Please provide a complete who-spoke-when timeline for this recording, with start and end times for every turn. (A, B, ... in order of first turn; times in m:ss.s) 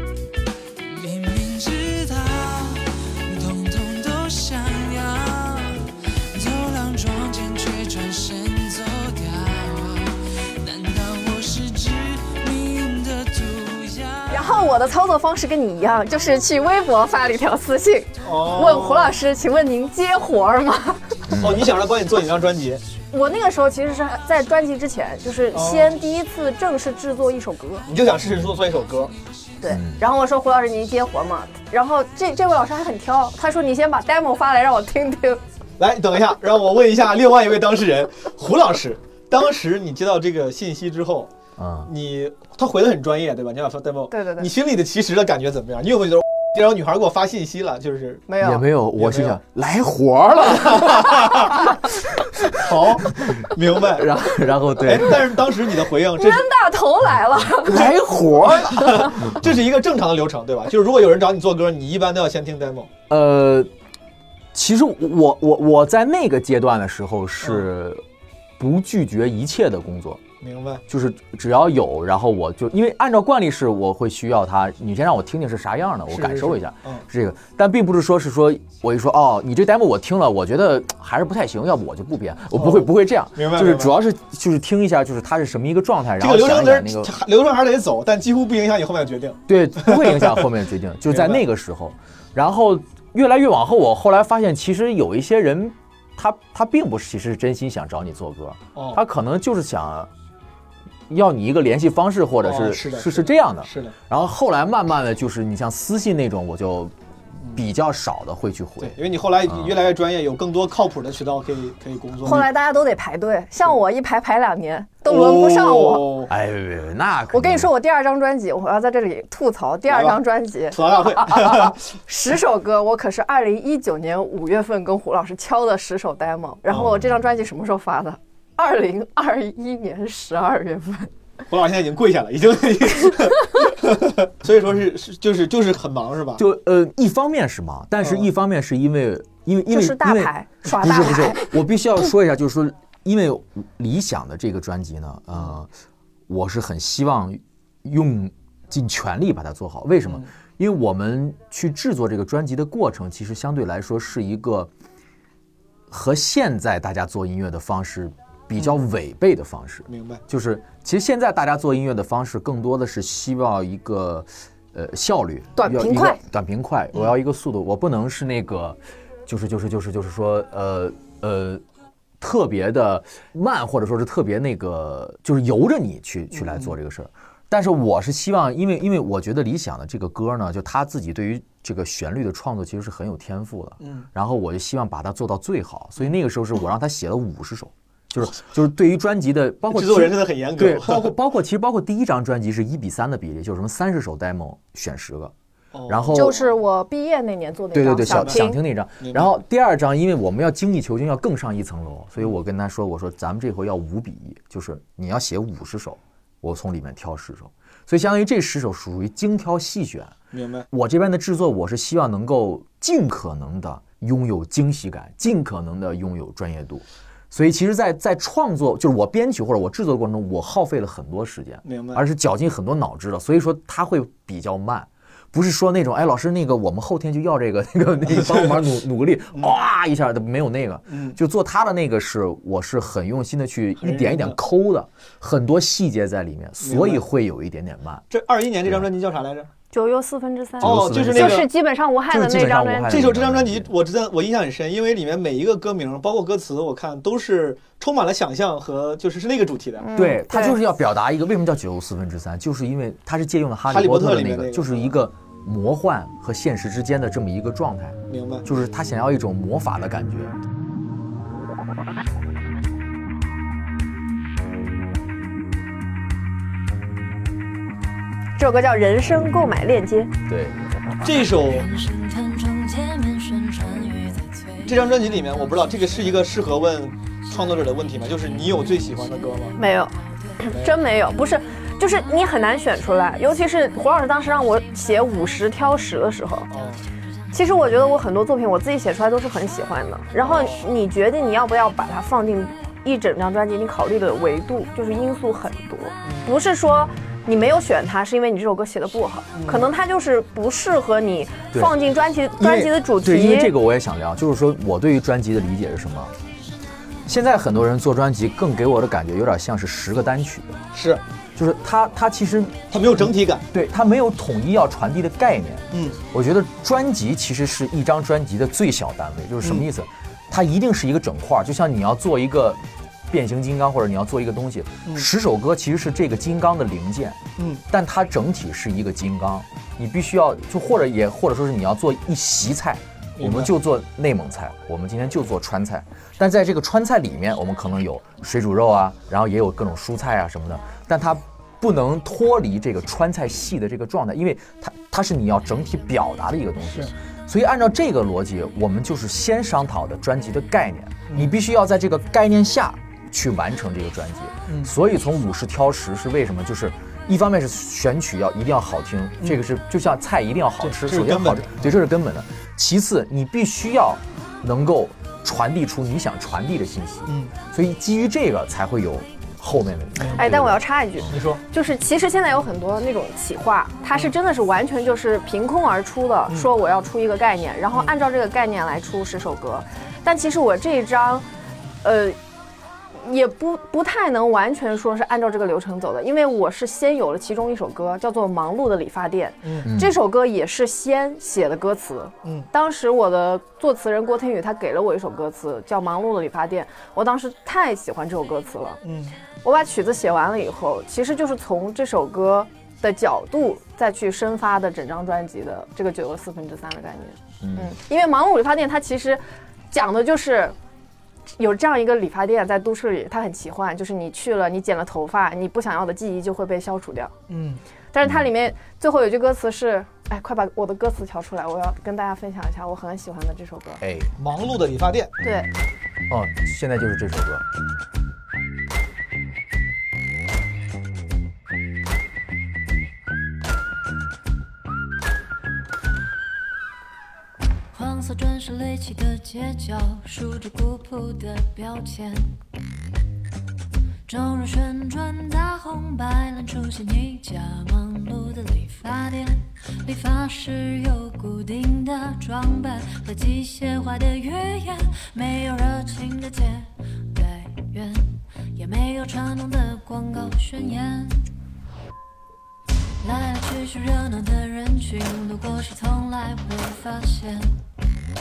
0:00.8-0:14.6 A
0:14.3-0:21.2 B
0:18.2-0:19.1 C
0:21.3-0:21.7 D
0:21.4-0:22.8 C
0:23.1-0:27.9 B
0:25.5-0:25.9 C
0:27.9-0:29.1 C
0:29.6-0:35.4 B
0:29.7-0:30.0 D
0:35.8-0:41.3 C
0:41.6-0:41.9 D
0:41.9-0:48.2 C
0:44.1-0:44.5 B
0:48.3-0:48.6 B
0:48.4-0:52.5 D
0:49.0-0:49.4 C
0:50.7-0:51.7 C
0:52.5-0:54.1 C
0:53.1-0:55.5 D
0:54.7-0:56.5 C
0:56.1-0:58.0 B
0:57.6-0:59.4 D
0:58.5-1:02.9 C
1:03.1-1:03.7 D
1:04.5-1:08.0 D
1:08.6-1:10.2 D
1:10.4-1:10.8 C
1:10.9-1:27.1 D
1:16.1-1:17.0 C
1:22.6-1:23.9 C
1:26.2-1:30.5 C
1:29.5-1:40.1 D
1:31.1-1:31.4 C
1:38.8-1:39.0 C
1:41.1-1:46.9 D
1:42.4-1:43.9 C
1:47.5-1:49.7 D
1:48.8-1:52.5 C
1:52.2-1:56.1 B
1:55.0-1:56.3 C
1:56.3-1:57.7 D
1:57.3-2:11.1 B
1:59.9-2:00.2 C
2:00.7-2:01.8 C
2:06.7-2:07.1 D
2:11.5-2:16.4 C
2:16.4-2:25.7 D
2:18.0-2:18.3 C
2:19.7-2:21.5 B
2:26.3-2:34.7 D
2:30.0-2:30.3 C
2:35.9-2:51.6 D
2:39.9-2:40.2 C
2:45.6-2:46.2 B
2:52.2-3:15.3 D
2:56.3-2:56.7 C
3:03.8-3:04.1 C
3:09.7-3:11.1 C
3:15.7-3:16.5 C
3:15.9-3:16.4 D
3:16.1-3:18.6 B
3:17.7-3:30.2 D
3:18.1-3:18.4 C
3:19.0-3:19.3 C
3:30.3-3:30.6 C
3:30.7-3:58.0 D
3:41.6-3:42.0 C
3:50.9-3:51.2 C
3:53.8-3:54.4 C
3:56.6-3:57.0 C
3:58.1-3:59.5 C
3:59.7-4:03.0 B
4:00.6-4:01.5 C
4:00.6-4:01.5 D
4:02.1-4:03.7 D
4:02.9-4:09.8 C
4:09.8-4:10.6 B
4:10.0-4:20.4 D
4:13.7-4:14.9 C
4:18.1-4:18.5 C
4:28.4-4:30.1 B
4:30.3-4:30.6 D
4:31.0-4:31.7 C
4:31.4-4:35.0 E
4:34.6-4:39.6 C
4:39.6-4:46.5 B
4:40.5-4:40.8 C
4:46.5-4:46.8 C
4:47.3-5:03.5 B
4:50.2-4:50.6 C
4:56.0-4:56.4 C
4:59.3-4:59.7 C
5:02.4-5:02.7 C
5:03.0-5:06.1 D
5:07.0-5:10.6 D
5:10.7-5:11.0 C
5:11.4-6:11.2 D
5:12.7-5:13.4 C
5:15.7-5:16.0 C
5:33.2-5:33.5 C
5:54.5-5:54.7 C
6:00.6-6:01.7 C
6:07.1-6:07.3 C
6:10.0-6:10.2 C
6:10.1-6:21.2 B
6:11.1-6:11.4 C
6:21.8-6:22.2 B
6:23.0-6:38.8 B
6:29.4-6:29.7 C
6:29.6-6:29.9 D
6:38.8-6:39.1 C
6:39.4-6:50.5 B
6:47.4-6:47.7 D
6:51.4-6:57.1 B
6:57.3-6:57.6 C
6:57.9-7:03.8 B
7:03.8-7:04.1 D
7:04.2-7:05.1 C
7:05.2-7:05.5 B
7:06.1-7:07.4 D
7:17.7-7:22.4 E
7:24.1-7:41.2 E
7:43.0-7:47.6 E